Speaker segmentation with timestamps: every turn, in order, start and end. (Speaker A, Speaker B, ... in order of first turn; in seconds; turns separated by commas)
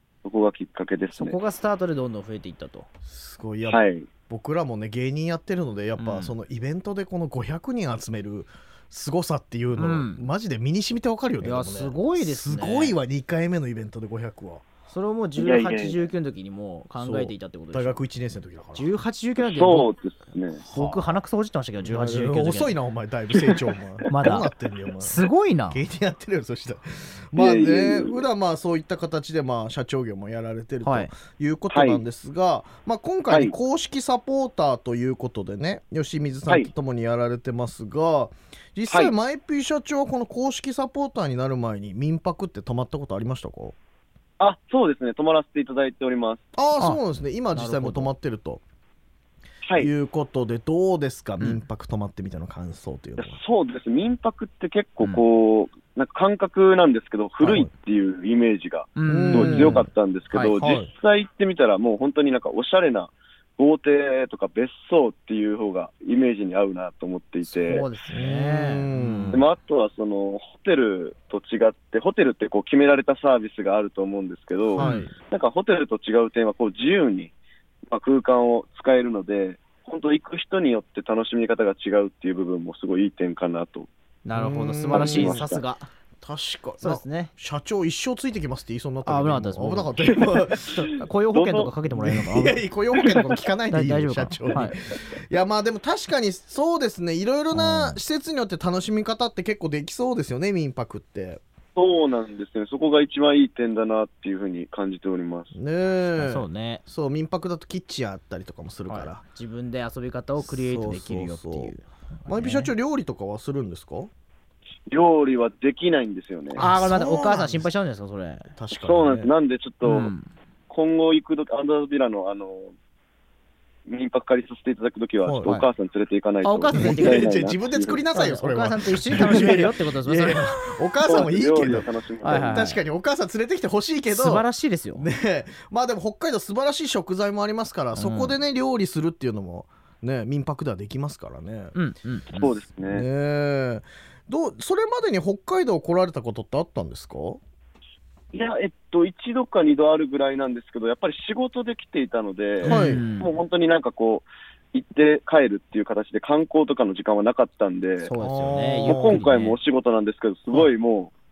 Speaker A: 0.2-1.4, Speaker B: 1.1-2.9, Speaker C: 3.0-14.7, Speaker A: 3.6-4.1, Speaker B: 6.0-6.3, Speaker B: 9.8-10.2, Speaker B: 11.4-12.9, Speaker B: 14.9-18.0, Speaker A: 15.4-16.1, Speaker C: 17.0-18.9, Speaker B: 18.7-19.9, Speaker A: 19.4-20.6, Speaker C: 20.6-21.1, Speaker B: 20.7-22.7, Speaker C: 21.8-43.8, Speaker B: 24.1-24.5, Speaker B: 25.0-25.8, Speaker A: 27.3-28.2, Speaker B: 30.8-31.1, Speaker A: 31.7-32.0, Speaker A: 33.3-33.5, Speaker A: 44.4-46.4, Speaker C: 46.5-48.6, Speaker B: 47.5-48.1, Speaker C: 49.8-53.4, Speaker A: 53.2-67.8, Speaker C: 57.4-57.7, Speaker B: 59.0-60.6, Speaker C: 59.0-59.8, Speaker C: 60.6-60.9, Speaker B: 67.6-69.5, Speaker C: 68.1-69.4, Speaker A: 69.3-77.3, Speaker C: 74.7-75.1, Speaker B: 74.8-75.1, Speaker A: 77.9-83.9, Speaker B: 84.2-85.9, Speaker C: 84.3-85.4, Speaker A: 84.9-85.6, Speaker C: 86.2-90.9, Speaker B: 86.8-87.3, Speaker B: 89.0-89.9, Speaker A: 90.1-91.7, Speaker B: 90.8-92.6, Speaker C: 92.0-101.4, Speaker B: 93.7-94.8, Speaker B: 97.5-98.0, Speaker A: 101.8-105.5, Speaker C: 105.5-109.2, Speaker B: 106.2-106.8, Speaker B: 108.9-112.7, Speaker C: 110.4-111.7, Speaker C: 112.2-114.1, Speaker A: 114.9-116.6, Speaker C: 116.5-117.7, Speaker B: 116.5-118.5, Speaker C: 118.5-119.3, Speaker A: 118.7-120.1, Speaker B: 119.8-120.3, Speaker A: 120.7-122.7, Speaker A: 123.8-128.0, Speaker C: 125.2-125.5, Speaker B: 126.4-127.3, Speaker C: 126.7-134.4, Speaker B: 128.1-130.4, Speaker A: 131.0-132.6, Speaker B: 132.2-132.8, Speaker B: 134.1-135.1, Speaker C: 134.9-141.7, Speaker B: 137.9-138.3, Speaker B: 141.7-142.5, Speaker A: 142.3-143.1, Speaker C: 142.9-147.4, Speaker A: 148.3-158.1, Speaker C: 152.6-153.0, Speaker B: 152.6-153.3, Speaker B: 158.0-159.6, Speaker C: 158.2-159.2, Speaker A: 158.8-161.1